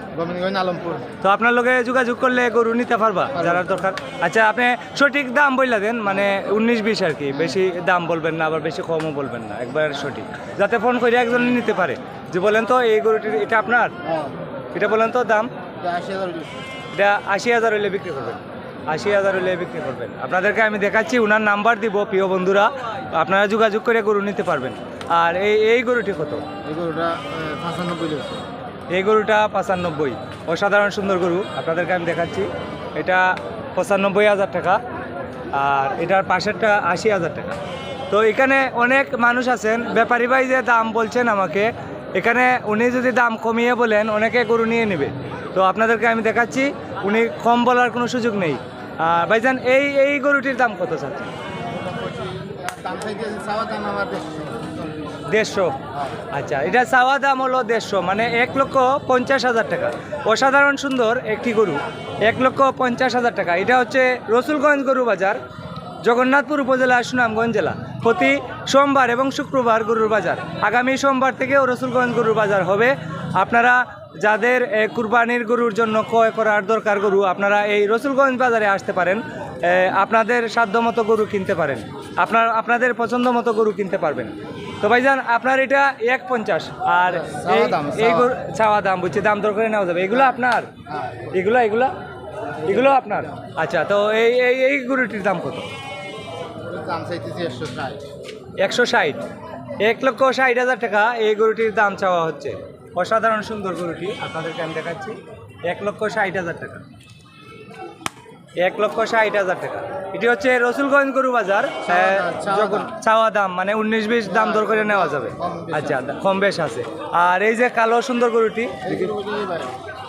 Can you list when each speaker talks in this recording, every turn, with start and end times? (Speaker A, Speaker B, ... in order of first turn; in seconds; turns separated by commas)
Speaker A: 0.1-1.1, Speaker B: 1.2-13.9, Speaker A: 3.4-3.7, Speaker A: 14.0-14.4, Speaker B: 14.7-15.5, Speaker A: 15.8-16.6, Speaker B: 16.9-26.4, Speaker A: 26.6-28.5, Speaker B: 28.9-34.8, Speaker B: 35.5-37.6, Speaker B: 38.1-51.3, Speaker A: 51.7-55.0, Speaker B: 55.3-55.8, Speaker A: 55.9-56.3, Speaker B: 56.3-65.4, Speaker B: 66.0-90.7, Speaker A: 87.1-88.3, Speaker A: 90.9-91.3, Speaker B: 91.3-91.9, Speaker B: 92.7-95.7, Speaker A: 92.9-93.3, Speaker A: 96.6-98.1, Speaker B: 98.6-99.2, Speaker B: 99.8-106.8, Speaker B: 108.6-119.1, Speaker A: 111.8-112.9, Speaker A: 114.3-116.2, Speaker A: 118.8-119.7